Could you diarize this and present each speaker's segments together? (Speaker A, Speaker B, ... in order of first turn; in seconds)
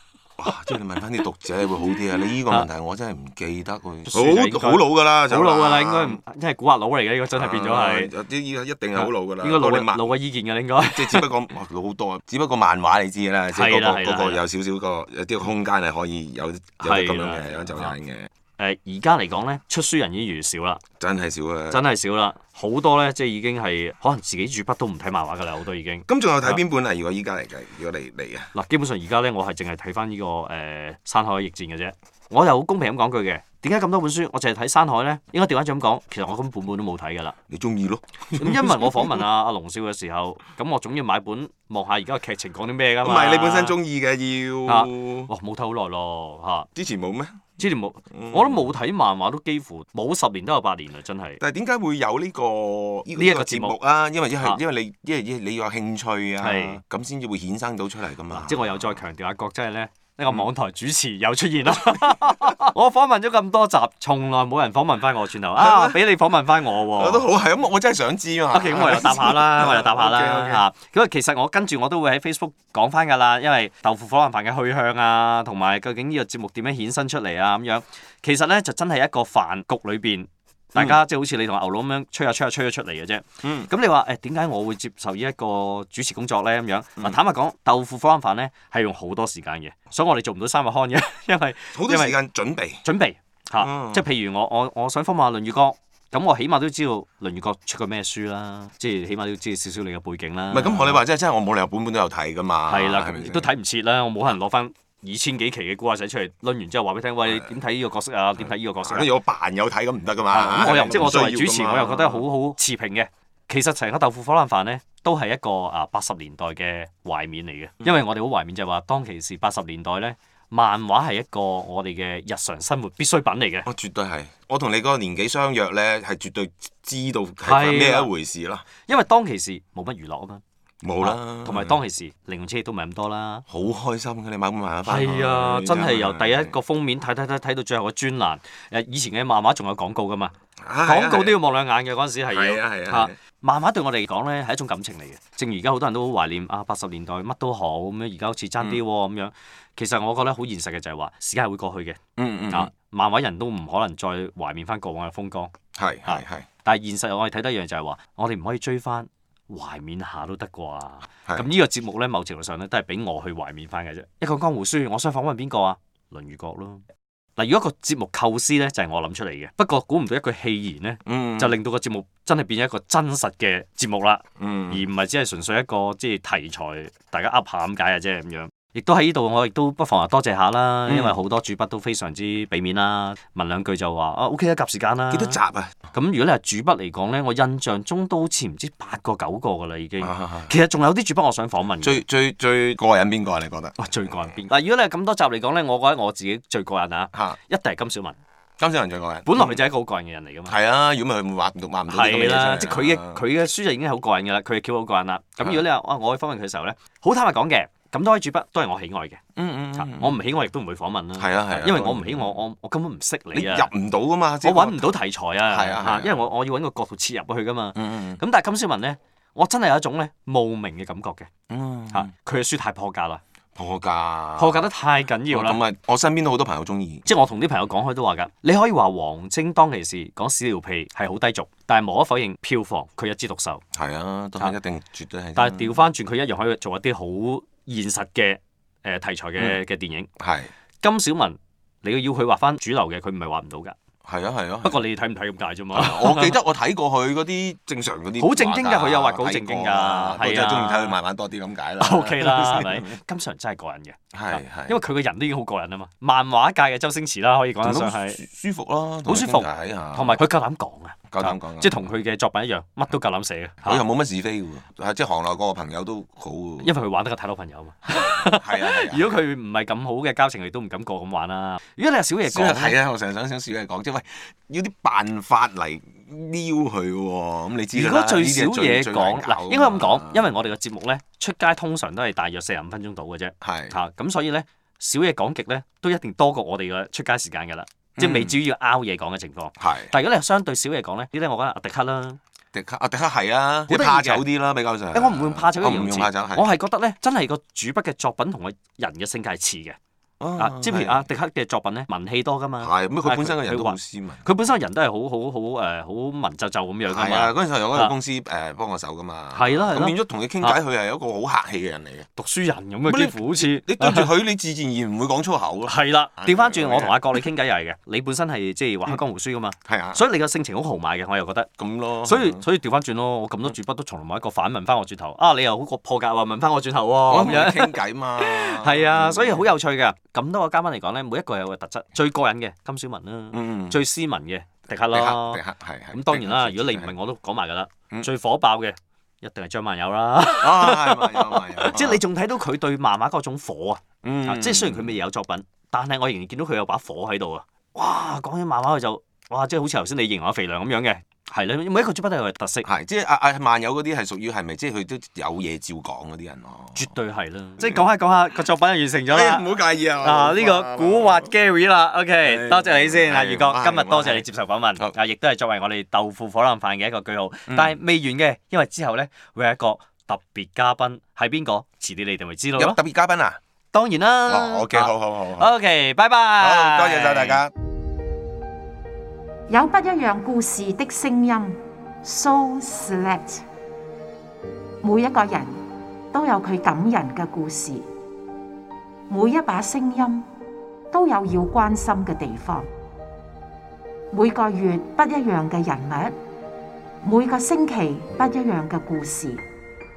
Speaker A: 0.4-6.2, 7.3-10.1, 10.8-18.3, 21.0-21.8, 26.1-28.5, 37.5-39.2, 43.0-45.3, 46.8-47.5, 48.1-48.7, 51.4-59.0, 61.8-62.6, 65.6-66.0, 66.9-70.7, 83.4-83.7, 91.7-92.8, 93.6-94.0, 100.5-103.5, 107.2-107.5, 108.8-112.2, 123.7-128.7, 130.8-131.8, 133.5-136.5, 140.6-141.4, 142.3-143.2, 152.2-152.7, 155.8-156.5, 171.1-171.6, 174.4-174.8, 180.9-181.2, 185.1-185.8, 190.0-190.6, 191.8-194.3, 197.1-197.4, 198.6-199.6, 200.5-203.2, 209.4-210.2, 211.2-212.3, 213.3-216.1, 217.8-218.2, 221.5-222.1, 223.6-224.7, 225.3-227.1, 233.7-235.9, 240.2-240.5, 244.1-244.8, 245.7-252.9, 254.1-254.8, 257.6-260.2, 261.1-261.8, 263.6-266.7, 267.9-269.2, 272.2-280.3, 283.4-283.8, 288.0-288.4, 289.6-289.9, 292.5-296.5, 300.2-301.1, 302.6-304.3, 306.9-312.1, 312.9-317.2, 319.6-320.0, 321.6-322.4, 327.1-329.5, 333.3-333.8, 334.9-336.9, 340.4-342.0, 344.0-345.0, 352.6-356.9, 359.1-361.3, 362.2-364.2, 367.5-367.8, 372.6-373.4, 374.3-375.5, 376.4-377.5
Speaker B: 4.1-8.1, 9.0-11.3, 13.5-14.4, 16.8-17.9, 18.6-20.8, 21.7-26.6, 28.5-37.4, 38.4-43.8, 44.7-46.7, 47.6-51.4, 53.1-53.8, 56.4-56.8, 58.3-67.2, 68.5-92.2, 92.8-101.0, 102.7-109.1, 110.3-123.7, 127.5-128.1, 128.8-130.4, 131.0-133.4, 134.9-152.0, 152.5-155.5, 156.1-166.8, 167.4-185.4, 185.9-192.0, 193.8-198.2, 199.3-200.6, 201.9-209.2, 209.8-213.7, 214.4-221.3, 221.9-223.2, 224.4-225.6, 227.1-233.6, 235.4-240.1, 240.8-243.8, 244.6-246.4, 248.2-251.0, 251.8-258.2, 259.1-263.8, 266.6-272.8, 277.7-292.2, 293.7-294.2, 294.9-299.8, 300.4-307.9, 309.3-310.6, 312.2-314.1, 315.7-321.5, 322.0-335.4, 335.9-352.7, 356.8-359.4, 360.0-372.8, 373.7-377.4
Speaker C: 379.5-383.4, 384.8-385.6, 386.1-387.9, 389.1-390.3, 390.9-392.7, 394.1-396.1, 397.0-399.4